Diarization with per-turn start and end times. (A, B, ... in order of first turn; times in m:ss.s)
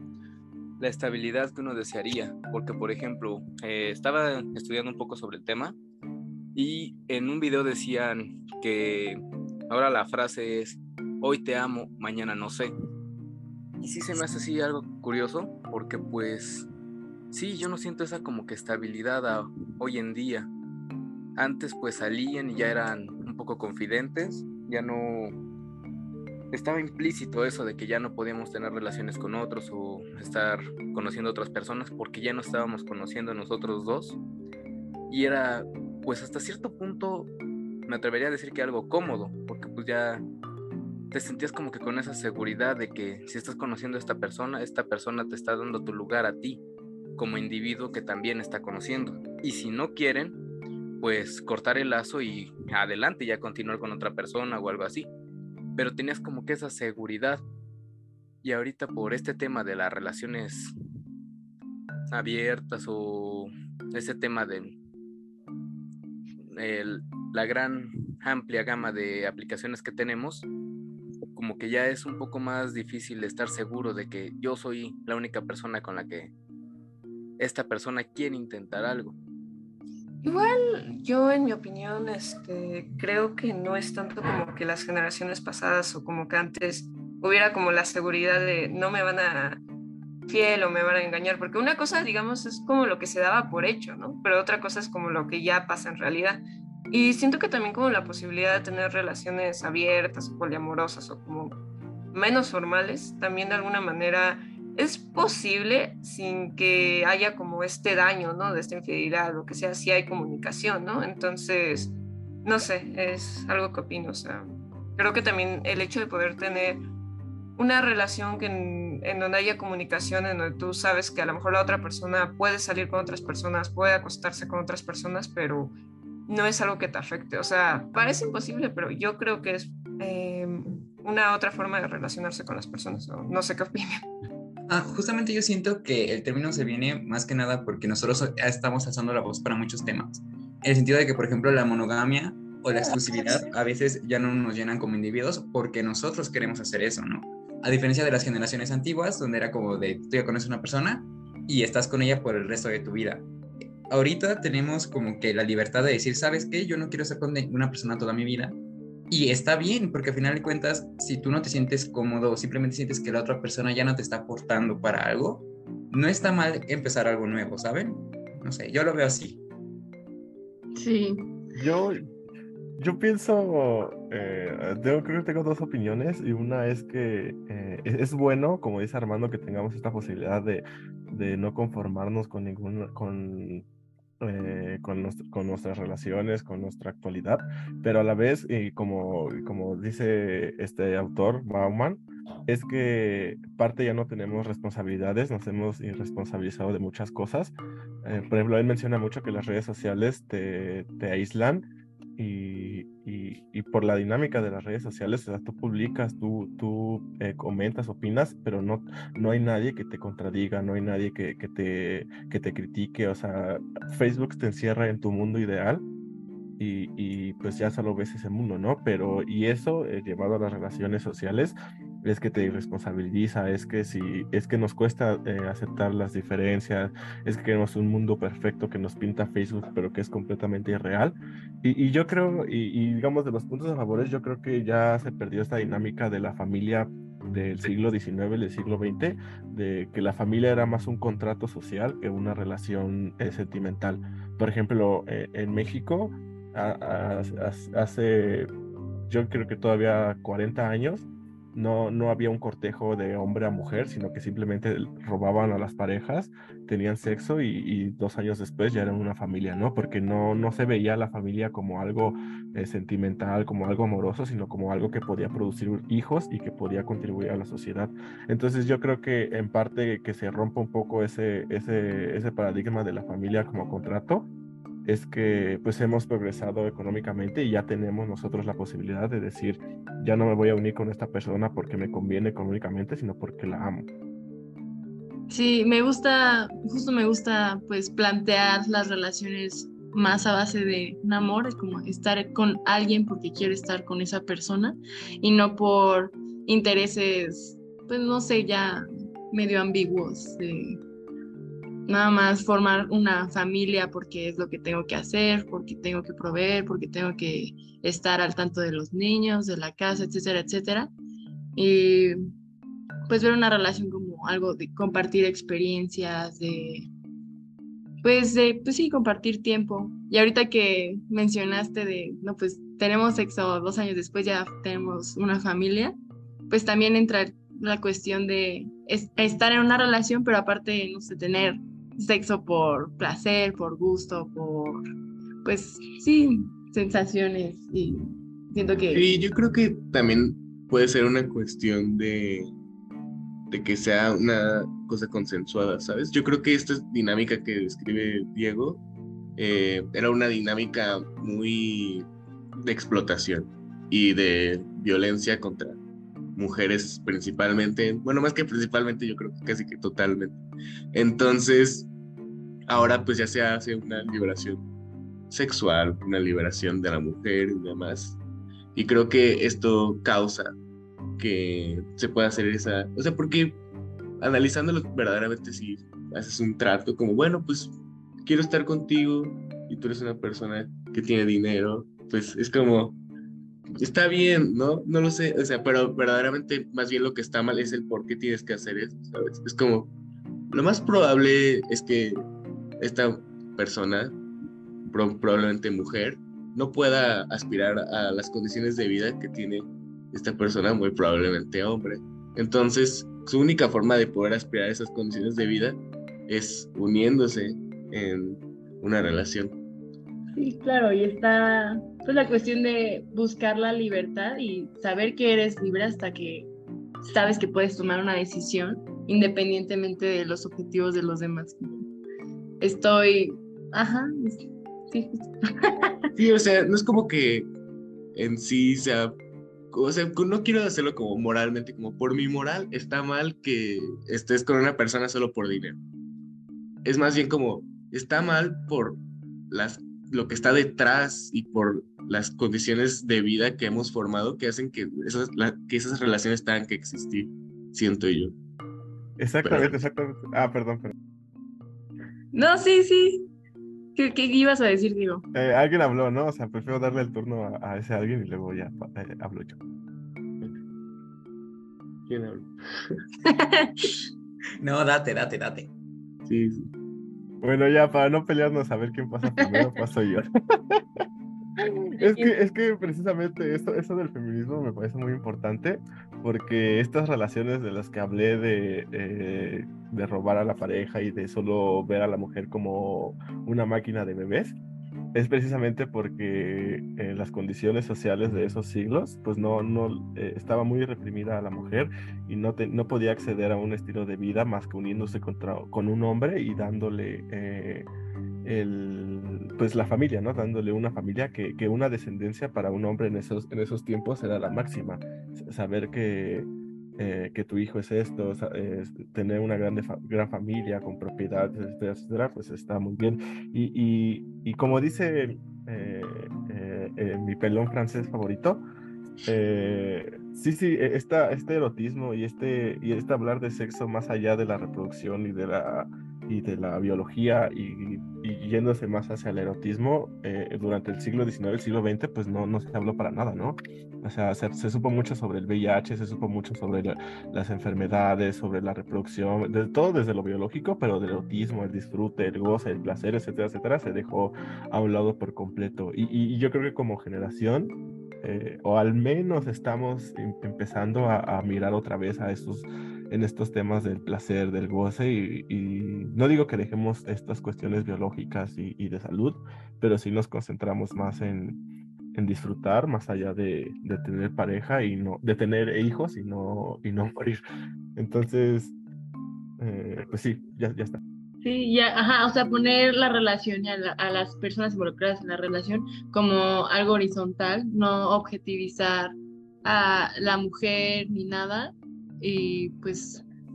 0:00.8-0:05.8 A
0:06.5-0:12.7 A
0:13.8-0:16.7 A
0:17.3-0:20.5 A
0:21.4-0:25.4 A
0:26.5-0:34.2 A
0:35.1-0:37.3 A
0:37.9-0:40.2 A
0:41.1-0:46.6 A
0:47.2-0:50.4 A
0:51.0-0:55.1 A
0:55.8-0:57.4 A
0:58.4-1:00.7 A
1:02.1-1:04.8 A
1:06.5-1:10.5 A
1:11.3-1:16.3 A
1:17.4-1:19.2 A
1:20.2-1:29.6 B
1:30.3-1:36.4 B
1:36.9-1:41.6 B
1:42.1-1:56.8 B
1:57.6-2:05.7 B
2:06.3-2:14.0 B
2:14.7-2:33.2 C
2:33.9-2:38.6 C
2:39.1-2:49.4 C
2:50.7-2:51.3 D
2:51.6-2:52.0 E
2:52.8-3:03.6 E
3:04.2-3:21.6 E
3:22.2-3:35.8 E
3:36.6-4:08.5 E
4:09.1-4:34.3 E
4:34.8-4:43.9 E
4:45.3-5:00.8 D
5:01.8-5:10.9 D
5:11.6-5:12.2 D
5:13.1-5:16.9 D
5:18.0-5:26.0 D
5:26.5-5:34.8 D
5:35.4-5:39.0 D
5:38.9-5:42.5 F
5:43.5-5:48.8 F
5:49.4-5:55.8 F
5:56.4-6:00.4 F
6:00.9-6:01.9 F
6:02.7-6:04.6 F
6:05.3-6:08.2 F
6:08.7-6:10.5 F
6:11.2-6:13.6 F
6:14.2-6:17.7 F
6:18.2-6:23.0 F
6:23.8-6:29.9 F
6:30.5-6:32.2 F
6:32.8-6:34.2 F
6:34.8-6:49.6 F
6:50.3-6:56.5 D
6:57.0-7:01.9 D
7:02.6-7:05.9 D
7:06.2-7:07.5 F
7:08.1-7:09.1 F
7:09.7-7:15.8 F
7:16.8-7:28.4 F
7:29.2-7:30.9 E
7:29.4-7:29.7 F
7:32.3-7:33.3 D
7:33.9-7:35.2 D
7:35.3-7:39.6 E
7:42.0-7:43.0 F
7:43.2-7:43.7 D
7:44.6-7:45.7 C
7:46.2-7:46.7 F
7:47.4-7:51.0 E
7:52.0-7:52.3 D
7:52.0-8:04.6 E
8:05.1-8:17.9 E
8:18.4-8:38.6 E
8:39.2-9:21.6 E
9:22.1-9:27.4 E
9:28.0-9:28.7 E
9:29.6-9:31.0 E
9:31.4-9:43.2 D